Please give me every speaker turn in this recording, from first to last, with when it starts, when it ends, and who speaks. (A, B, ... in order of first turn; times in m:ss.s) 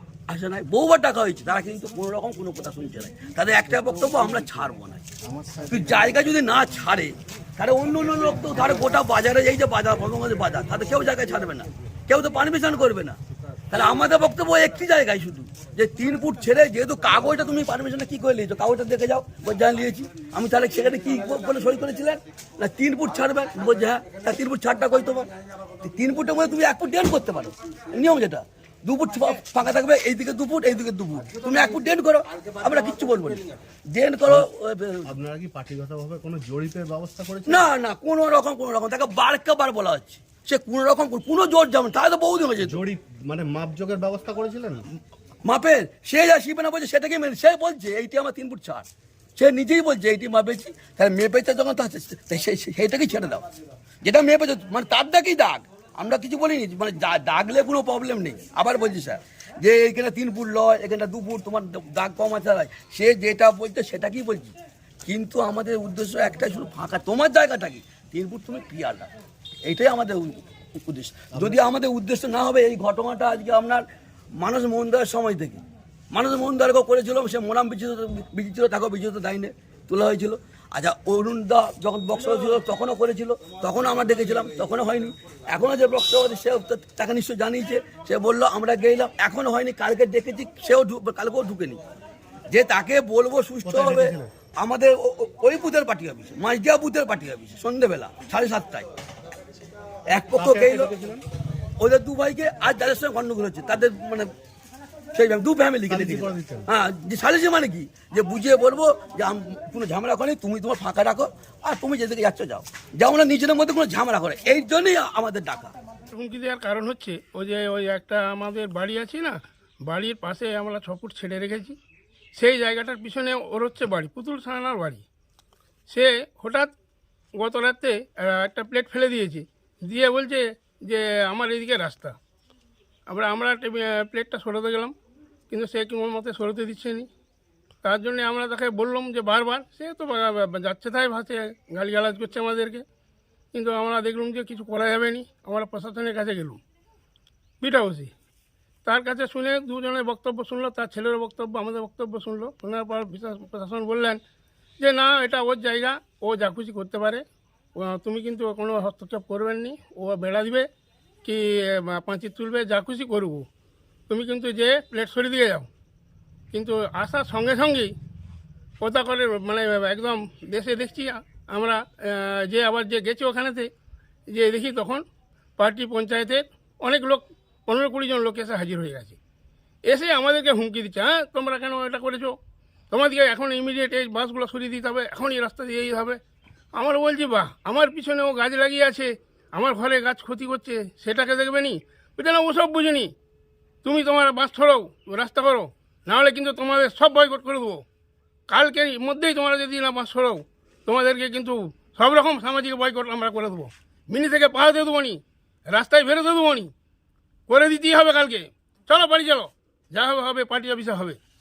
0:00.3-0:05.0 A
0:05.7-0:13.2 A
0:13.7-0:25.3 A
0:25.8-0:35.0 A
0:35.1-0:37.7 B
0:37.5-0:42.8 A
0:42.6-0:44.8 B
0:45.5-0:53.4 A
0:54.0-1:04.5 A
1:05.1-1:09.1 A
1:09.6-1:13.8 A
1:11.3-1:11.6 B
1:14.4-1:31.8 A
1:32.5-1:38.9 A
1:33.6-1:34.3 B
1:40.1-1:40.9 A
1:40.3-1:41.2 B
1:41.8-1:44.3 A
1:45.1-1:55.7 A
1:45.9-1:46.7 B
1:56.1-2:01.8 C
2:02.4-2:05.0 C
2:05.9-2:06.7 C
2:07.4-2:12.2 C
2:13.1-2:14.9 C
2:15.5-2:17.1 C
2:17.8-2:22.8 C
2:23.5-2:26.6 C
2:27.6-2:28.1 C
2:28.8-2:34.2 C
2:34.8-2:40.7 C
2:41.2-2:43.5 C
2:44.1-2:45.7 C
2:46.5-2:47.9 C
2:48.8-2:53.7 C
2:54.3-2:55.0 C
2:55.6-2:59.2 C
2:59.9-3:02.4 C
3:02.9-3:06.2 C
3:06.8-3:13.1 C
3:13.8-3:17.8 C
3:18.5-3:26.7 C
3:27.5-3:31.2 C